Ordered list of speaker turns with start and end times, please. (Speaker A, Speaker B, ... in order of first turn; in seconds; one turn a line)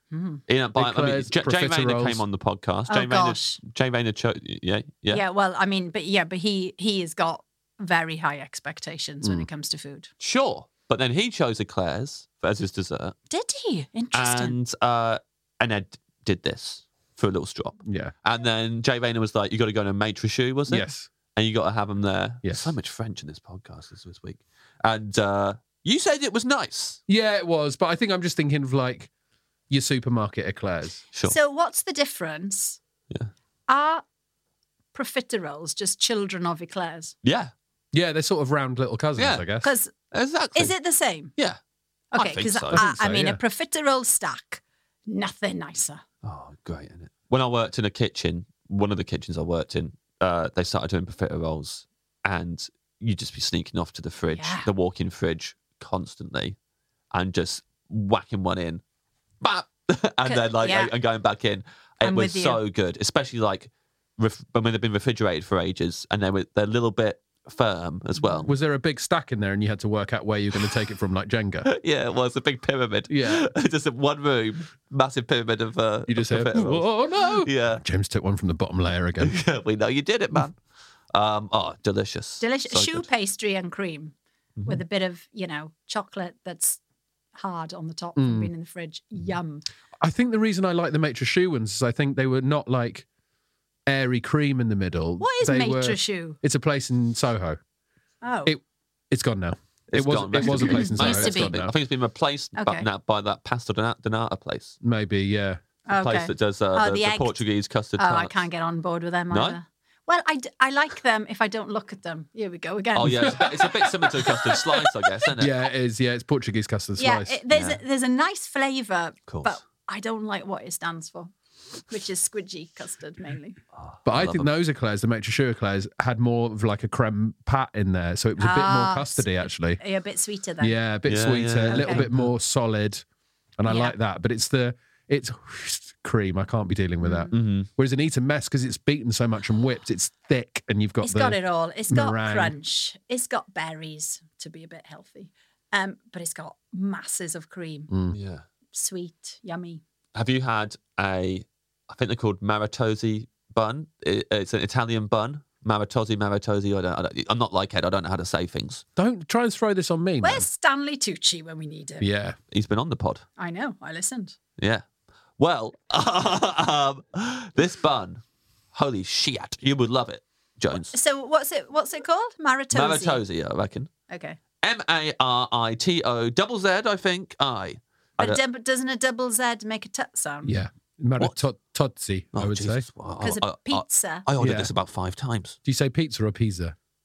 Speaker A: 0.1-0.4
Speaker B: 0.5-5.2
Speaker C: 0.7-2.2
Speaker A: 2.9-3.6
Speaker A: 5.1-10.1
Speaker C: 9.2-9.5
Speaker B: 10.2-13.1
Speaker A: 13.3-14.5
Speaker B: 14.1-27.0
Speaker C: 17.8-18.1
Speaker C: 20.7-21.1
Speaker C: 22.4-22.7
Speaker C: 27.1-29.1
Speaker C: 29.7-31.0
Speaker A: 31.2-32.8
Speaker A: 33.7-34.0
Speaker A: 34.9-37.1
Speaker B: 37.2-37.5
Speaker C: 37.9-39.7
Speaker B: 39.2-39.4
Speaker A: 39.6-39.9
Speaker B: 40.1-40.7
Speaker A: 40.5-41.3
Speaker A: 42.1-46.0
Speaker B: 42.1-42.8
Speaker C: 42.7-43.4
Speaker B: 46.2-56.5
Speaker A: 54.3-54.7
Speaker B: 57.1-58.8
Speaker B: 59.4-68.5
Speaker A: 60.2-60.9
Speaker A: 62.0-62.6
Speaker A: 68.2-68.5
Speaker C: 68.4-71.7
Speaker B: 71.7-77.8
Speaker C: 73.1-73.5
Speaker C: 76.1-79.4
Speaker B: 79.2-80.5
Speaker B: 81.1-83.1
Speaker A: 82.4-84.1
Speaker A: 84.7-86.8
Speaker A: 87.3-89.6
Speaker C: 88.2-88.5
Speaker C: 90.0-93.0
Speaker C: 93.8-97.6
Speaker A: 95.2-96.4
Speaker A: 98.2-98.5
Speaker C: 98.4-101.7
Speaker B: 99.9-104.8
Speaker A: 100.5-101.6
Speaker A: 102.5-102.9
Speaker C: 104.8-105.6
Speaker A: 105.9-107.4
Speaker B: 106.0-108.4
Speaker A: 108.0-113.6
Speaker B: 109.3-109.6
Speaker B: 113.0-115.5
Speaker C: 113.0-113.5
Speaker C: 115.4-117.4
Speaker A: 117.0-121.3
Speaker B: 117.5-117.8
Speaker B: 119.3-119.5
Speaker A: 121.9-123.6
Speaker B: 123.7-124.5
Speaker C: 124.0-129.8
Speaker A: 128.4-130.8
Speaker C: 130.6-133.0
Speaker B: 131.1-132.3
Speaker A: 131.7-132.0
Speaker C: 133.6-142.5
Speaker A: 133.7-133.9
Speaker A: 137.0-137.3
Speaker B: 137.3-137.7
Speaker A: 141.0-147.9
Speaker C: 147.9-148.2
Speaker B: 148.1-148.4
Speaker A: 148.7-149.8
Speaker B: 150.1-158.8
Speaker C: 159.0-160.5
Speaker A: 160.2-162.1
Speaker C: 162.0-162.4
Speaker B: 162.5-163.2
Speaker A: 163.4-164.3
Speaker B: 164.6-164.8
Speaker B: 165.4-168.2
Speaker B: 168.7-170.9
Speaker A: 170.9-173.2
Speaker B: 172.7-173.9
Speaker A: 174.1-174.4
Speaker B: 174.6-178.4
Speaker A: 178.2-180.6
Speaker C: 180.4-182.8
Speaker B: 182.3-185.6
Speaker A: 183.2-184.2
Speaker C: 184.4-184.7
Speaker C: 185.6-186.7